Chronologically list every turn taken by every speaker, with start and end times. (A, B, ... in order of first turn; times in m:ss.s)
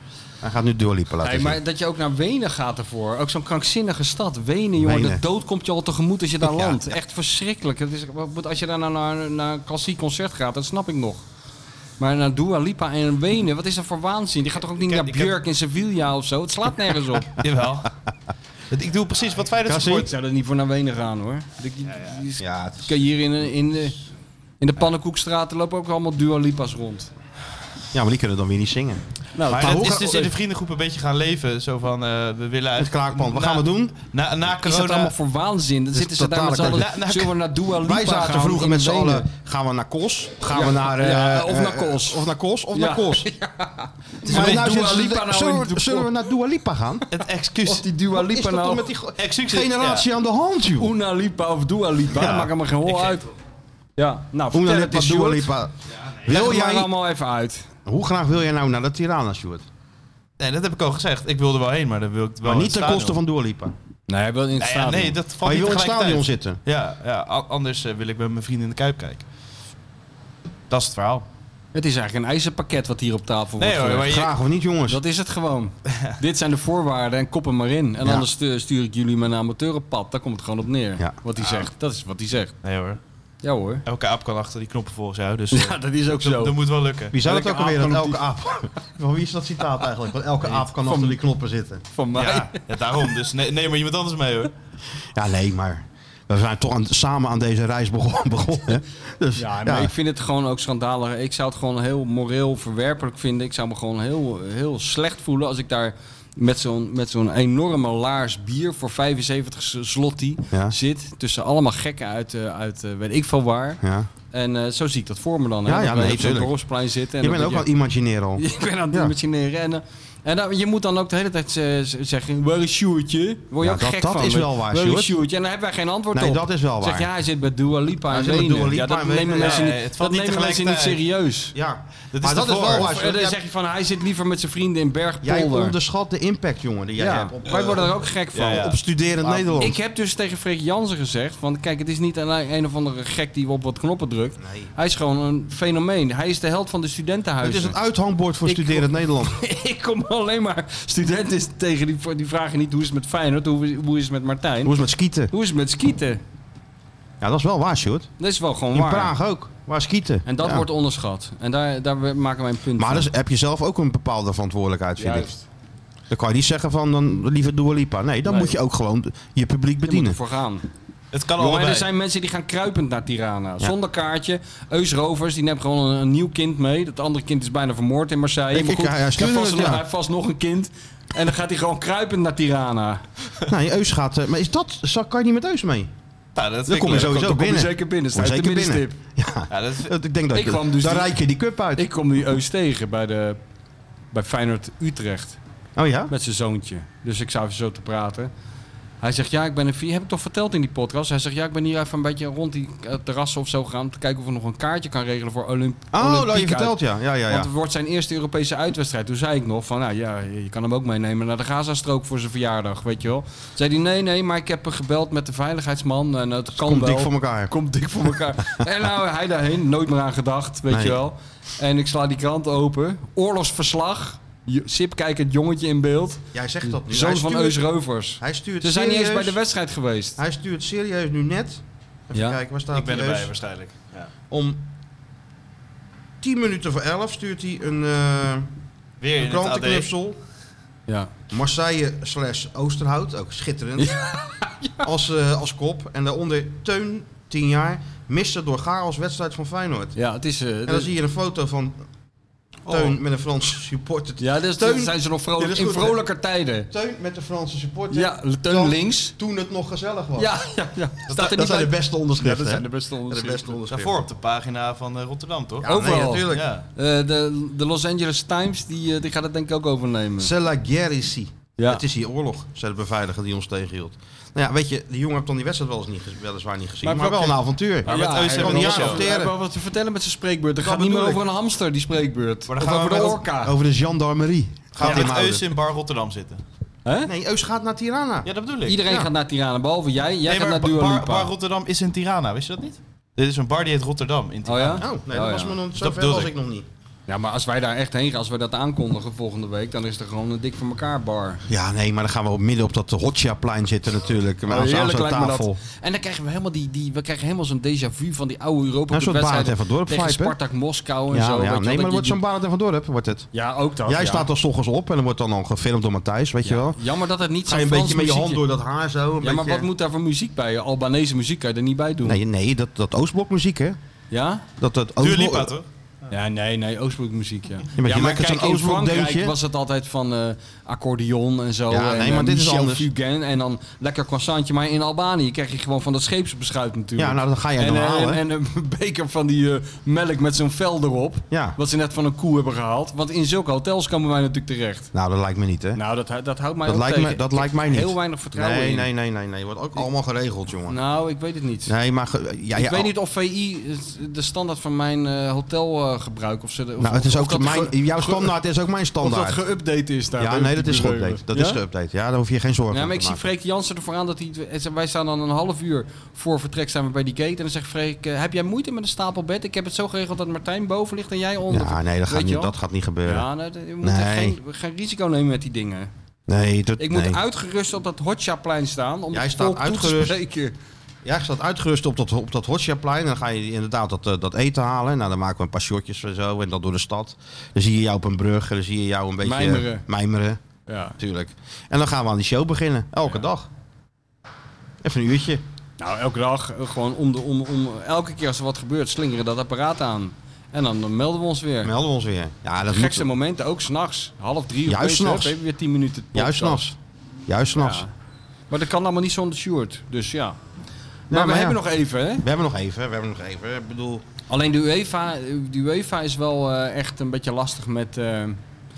0:00.4-0:01.6 A
0:01.2-0:11.2 B
0:04.8-0:05.2 A
0:06.4-0:06.8 A
0:12.0-0:17.3 B
0:14.6-0:15.4 C
0:17.4-0:17.9 C
0:18.7-0:20.1 C
0:19.7-0:24.0 B
0:19.7-0:20.0 A
0:22.4-0:22.9 A
0:24.6-0:27.1 B
0:27.9-0:29.0 A
0:29.3-0:30.3 B
0:29.5-0:35.1 C
0:29.5-0:30.0 A
0:32.8-0:34.0 A
0:34.6-0:39.3 B
0:35.9-0:36.9 A
0:36.6-0:37.3 C
0:37.8-0:43.3 A
0:40.5-0:46.1 B
0:44.2-0:47.0 A
0:44.3-0:44.7 C
0:47.1-0:47.8 C
0:47.6-0:48.9 B
0:48.1-0:50.9 A
0:49.2-0:50.0 C
0:50.8-0:53.3 B
0:52.1-0:52.5 A
0:52.8-0:53.3 C
0:54.0-0:55.5 B
0:54.5-0:55.7 A
0:56.2-0:56.9 A
0:56.2-0:57.7 B
0:57.8-0:59.6 A
1:00.4-1:03.2 C
1:02.4-1:03.7 A
1:04.1-1:05.2 B
1:04.6-1:09.2 C
1:05.4-1:06.6 A
1:10.7-1:11.2 C
1:11.7-1:14.1 B
1:13.6-1:14.3 C
1:14.0-1:15.0 A
1:14.9-1:22.5 B
1:22.6-1:23.0 C
1:23.4-1:23.8 B
1:23.8-1:27.2 C
1:25.5-1:26.6 B
1:27.1-1:31.8 A
1:27.2-1:28.2 B
1:30.8-1:31.2 B
1:31.9-1:32.6 B
1:32.1-1:34.5 C
1:35.1-1:39.9 A
1:39.4-1:53.8 B
1:53.8-1:54.1 A
1:54.3-1:57.7 B
1:55.6-1:56.6 A
1:57.2-1:59.1 A
1:58.4-2:11.5 B
2:03.6-2:05.2 A
2:06.1-2:07.1 A
2:08.1-2:09.7 A
2:09.4-2:11.0 C
2:11.5-2:13.4 A
2:12.1-2:12.9 C
2:12.6-2:15.8 B
2:15.2-2:18.0 A
2:17.0-2:18.7 B
2:18.3-2:19.5 C
2:18.5-2:19.8 A
2:19.6-2:27.8 B
2:24.4-2:24.7 A
2:27.4-2:29.3 A
2:28.4-2:34.8 B
2:34.6-2:35.3 A
2:35.3-2:36.2 B
2:37.2-2:38.1 A
2:38.2-2:39.1 B
2:38.7-2:40.6 A
2:40.2-2:43.1 B
2:42.8-2:45.3 A
2:45.0-2:45.4 B
2:46.1-2:50.2 A
2:48.2-2:48.5 B
2:49.8-2:50.6 B
2:51.1-2:51.9 C
2:51.4-3:03.0 B
2:58.5-2:59.8 A
3:03.5-3:05.9 A
3:06.3-3:07.1 C
3:06.7-3:11.8 A
3:07.0-3:09.0 B
3:09.5-3:09.9 C
3:10.3-3:11.2 B
3:11.7-3:13.4 B
3:14.1-3:15.4 B
3:15.8-3:16.1 A
3:16.1-3:18.3 B
3:19.0-3:50.2 B
3:25.9-3:27.5 A
3:36.5-3:37.5 A
3:40.7-3:41.0 A
3:46.3-3:47.7 A
3:48.2-3:49.4 A
3:50.2-3:53.3 A
3:52.1-3:52.4 B
3:52.7-3:54.1 C
3:54.3-3:54.6 A
3:56.2-3:58.5 A
3:59.0-3:59.9 C
3:59.2-4:00.2 A
4:01.3-4:03.9 A
4:03.8-4:04.8 B
4:04.8-4:09.9 A
4:10.0-4:10.9 B
4:10.6-4:11.8 A
4:12.7-4:16.0 A
4:14.2-4:16.7 B
4:16.7-4:20.3 A
4:17.9-4:19.1 B
4:20.2-4:23.5 B
4:21.1-4:24.0 A
4:21.1-4:21.7 C
4:23.7-4:25.7 C
4:25.6-4:26.5 A
4:25.6-4:30.3 B
4:26.3-4:26.6 C
4:30.2-4:39.3 A
4:31.6-4:31.8 B
4:36.8-4:39.1 C
4:37.8-4:43.5 B
4:40.6-4:41.2 A
4:42.5-4:43.2 C
4:42.6-4:45.4 A
4:44.7-4:46.4 C
4:44.8-4:45.1 B
4:46.8-4:47.1 B
4:47.0-4:48.3 A
4:48.2-4:48.8 C
4:48.7-4:51.3 B
4:50.3-4:54.8 C
4:54.4-4:55.6 B
4:54.8-4:56.7 A
4:55.8-4:56.3 C
4:57.1-5:01.4 B
5:01.5-5:05.6 A
5:04.5-5:12.2 B
5:08.9-5:10.4 A
5:11.1-5:13.3 A
5:13.3-5:14.3 B
5:13.8-5:16.8 A
5:16.4-5:18.4 B
5:17.4-5:19.7 A
5:19.2-5:22.2 B
5:22.0-5:23.8 A
5:24.1-5:24.4 B
5:24.6-5:25.5 A
5:25.0-5:26.1 C
5:26.1-5:44.9 B
5:27.8-5:29.3 A
5:31.7-5:32.9 A
5:37.0-5:38.2 A
5:41.3-5:41.6 A
5:44.9-5:45.8 A
5:45.7-5:48.9 B
5:46.6-5:50.8 A
5:50.7-5:51.7 B
5:51.6-5:52.9 A
5:52.5-5:58.3 B
5:56.8-5:59.4 A
5:59.0-6:01.6 B
6:00.2-6:03.3 A
6:02.7-6:12.5 B
6:11.5-6:13.3 A
6:13.0-6:15.9 B
6:13.8-6:14.4 A
6:16.3-6:17.2 A
6:16.8-6:20.5 B
6:19.1-6:20.2 A
6:21.0-6:30.4 A
6:29.2-6:29.8 B
6:30.7-6:31.0 B
6:31.0-6:33.5 A
6:34.8-6:35.4 A
6:35.8-6:41.7 B
6:41.6-6:43.1 A
6:42.7-6:46.7 B
6:44.6-6:45.4 A
6:46.1-6:47.8 A
6:47.6-6:47.9 B
6:48.5-6:50.4 B
6:51.1-6:52.2 B
6:51.1-6:51.6 A
6:52.2-6:54.0 A
6:54.3-6:58.4 B